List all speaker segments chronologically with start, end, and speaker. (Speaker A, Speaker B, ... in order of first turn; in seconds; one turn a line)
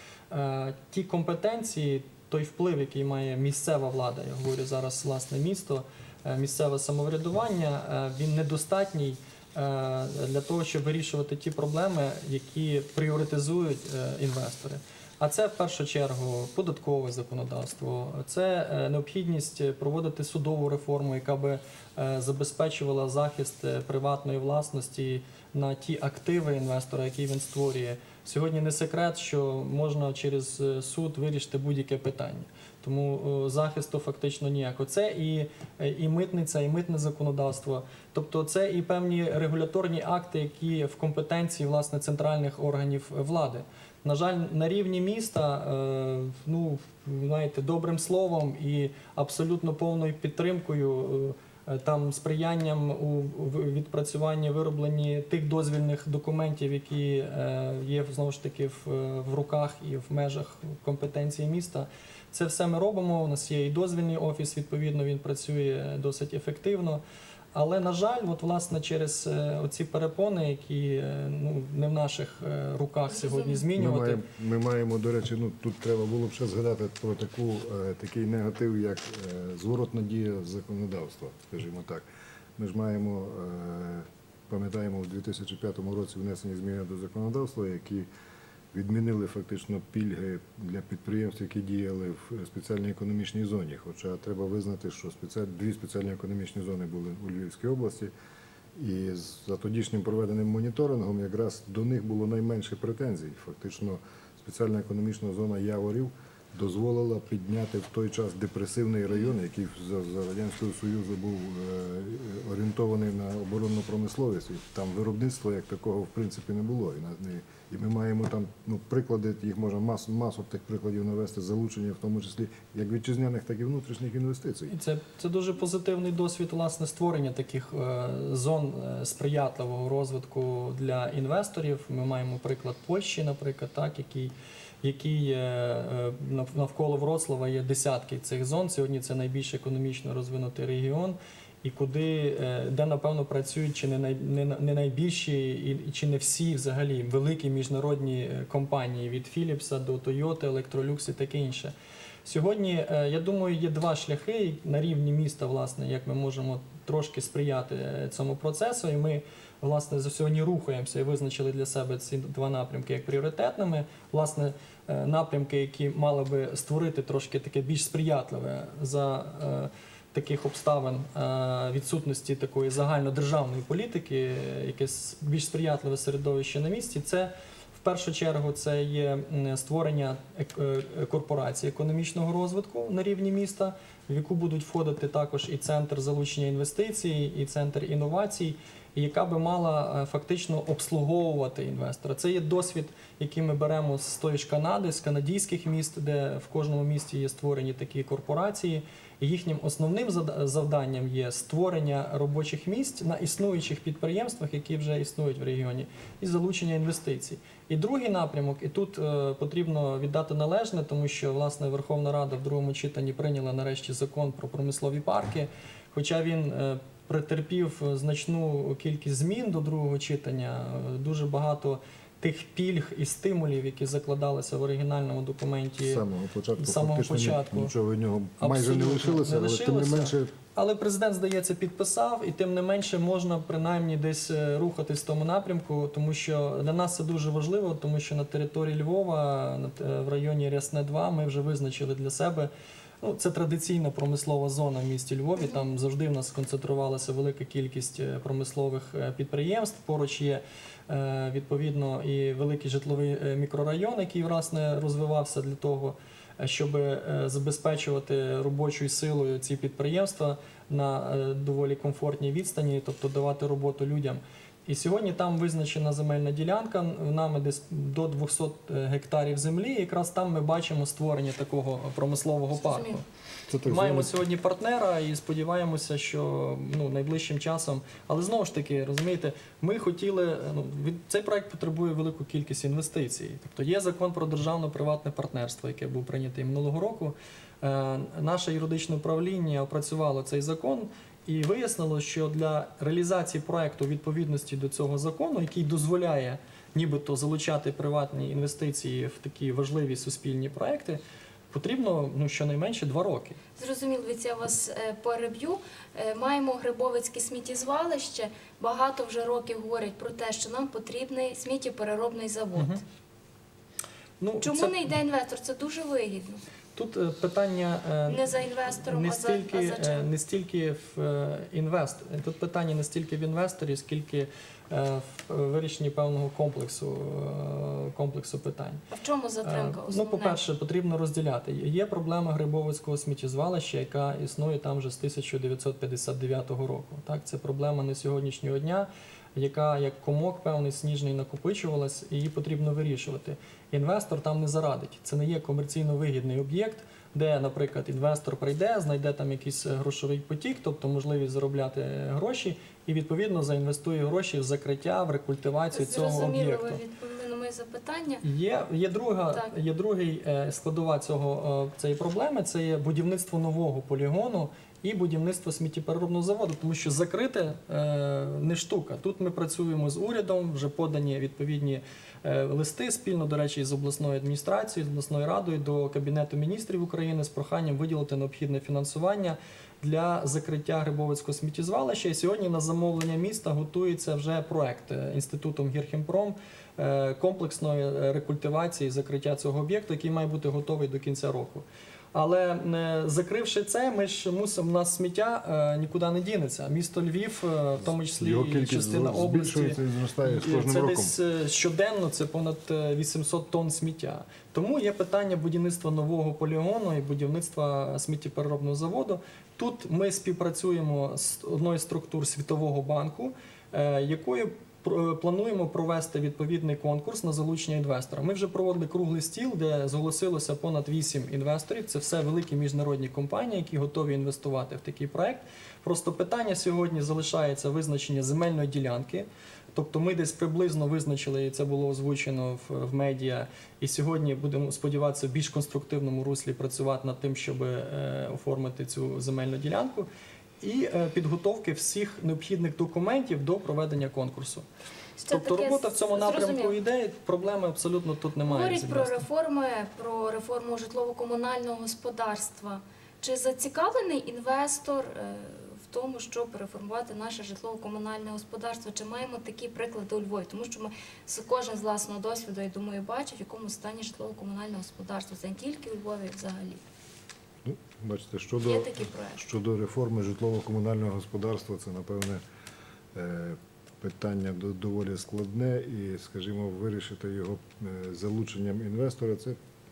Speaker A: 0.3-67.0
Speaker A: 67.5-74.2
Speaker B: 73.1-73.6
Speaker C: 73.7-82.0
Speaker C: 82.6-88.1
Speaker C: 88.7-98.1
Speaker C: 98.7-124.7
Speaker A: 124.7-151.7
Speaker A: 152.2-226.0
Speaker C: 225.8-230.3
Speaker A: 226.6-227.7
Speaker A: 228.4-242.5
Speaker A: 243.0-273.0
Speaker B: 272.6-273.0
Speaker C: 273.5-274.1
Speaker A: 273.6-301.0
Speaker A: 301.5-303.4
Speaker B: 303.6-312.8
Speaker A: 314.2-314.8
Speaker B: 314.4-316.4
Speaker A: 316.8-328.8
Speaker B: 318.1-320.1
Speaker B: 328.9-330.4
Speaker A: 329.4-356.8
Speaker B: 355.7-358.2
Speaker A: 358.2-440.1
Speaker C: 398.2-401.1
Speaker A: 440.6-444.6
Speaker B: 445.2-446.8
Speaker A: 445.3-449.2
Speaker B: 448.4-466.8
Speaker C: 467.6-472.4
Speaker B: 468.6-469.4
Speaker C: 473.1-479.6